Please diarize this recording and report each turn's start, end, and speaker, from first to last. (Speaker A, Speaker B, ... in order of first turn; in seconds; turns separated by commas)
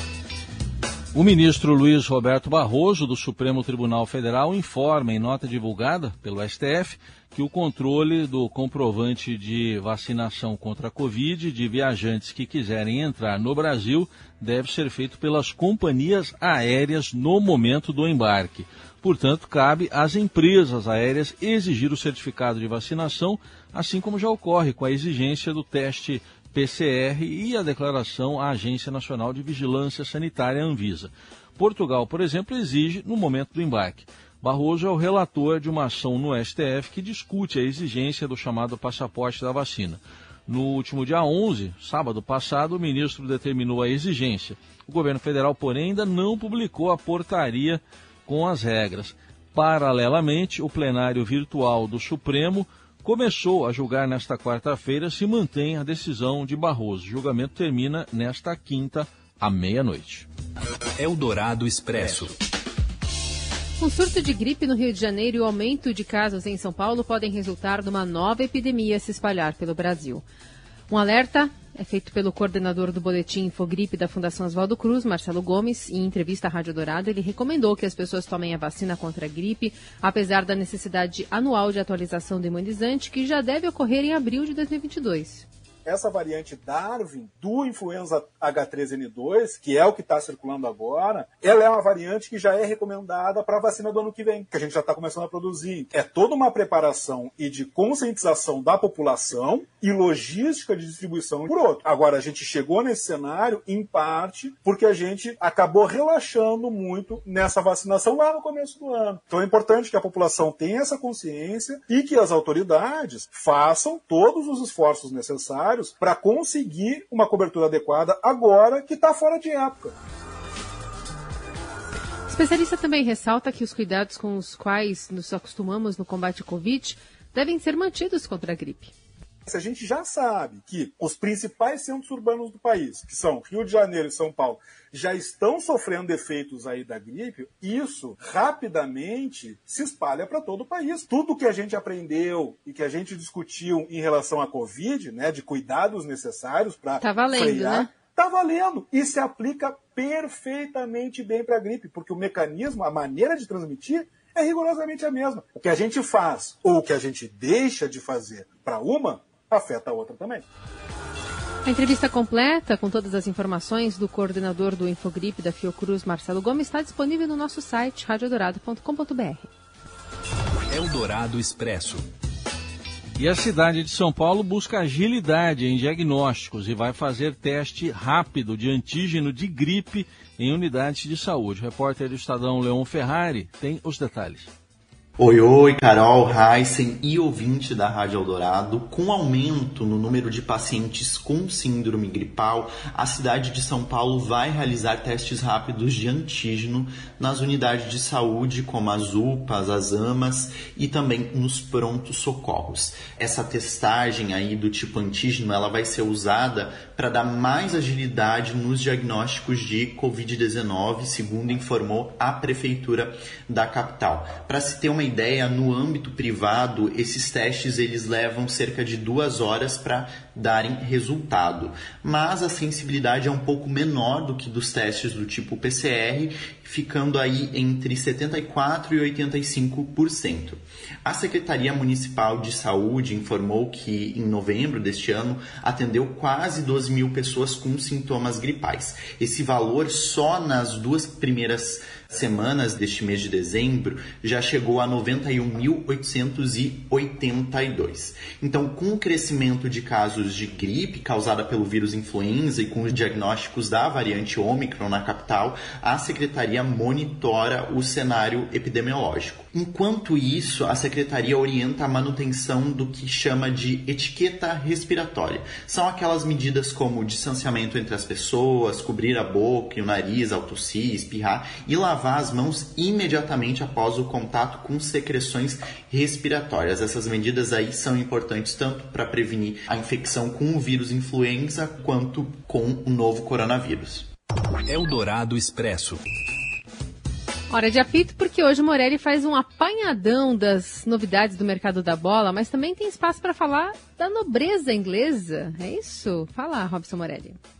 Speaker A: 1.1-60.3, Speaker B: 61.0-62.4, Speaker C: 63.8-70.2, Speaker C: 70.9-85.5, Speaker D: 85.8-119.9, Speaker C: 122.3-128.9, Speaker D: 129.5-160.4, Speaker C: 147.0-147.9, Speaker C: 161.7-169.5, Speaker B: 170.7-172.1, Speaker A: 173.2-184.5, Speaker E: 185.2-284.1, Speaker B: 284.7-286.0, Speaker C: 287.5-297.4